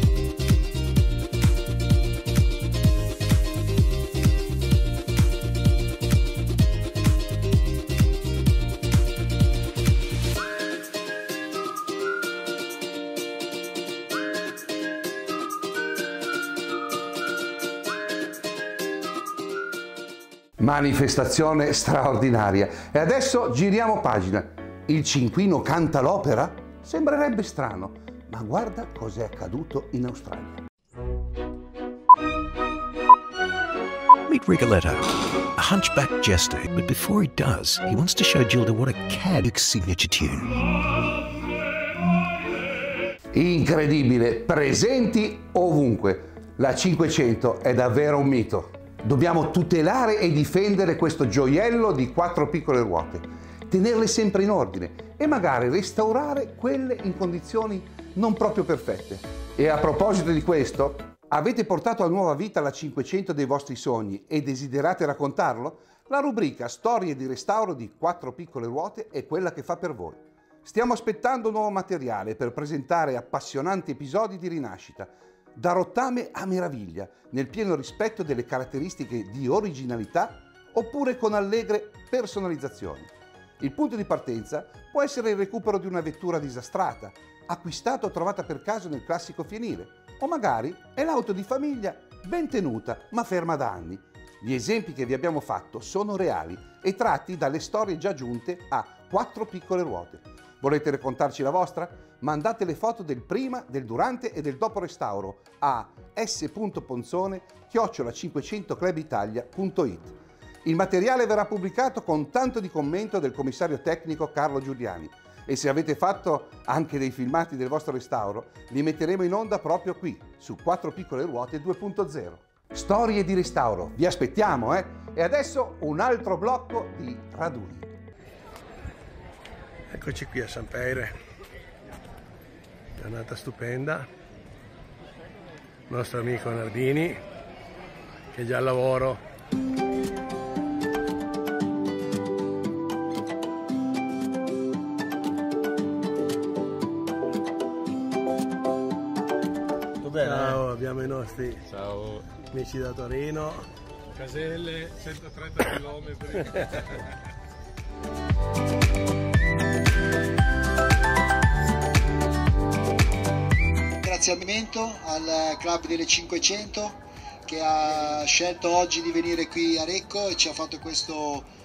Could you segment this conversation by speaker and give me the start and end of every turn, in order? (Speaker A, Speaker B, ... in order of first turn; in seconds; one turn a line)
Speaker A: 20.6-30.6
Speaker B: 34.3-40.5
Speaker A: 43.3-127.9
Speaker C: 129.9-131.1
Speaker C: 133.0-134.1
Speaker C: 135.9-137.2
Speaker C: 138.3-139.2
Speaker D: 150.0-150.6
Speaker C: 150.2-151.6
Speaker D: 151.7-152.2
Speaker C: 152.3-153.7
Speaker D: 154.1-156.8
Speaker E: 164.0-171.5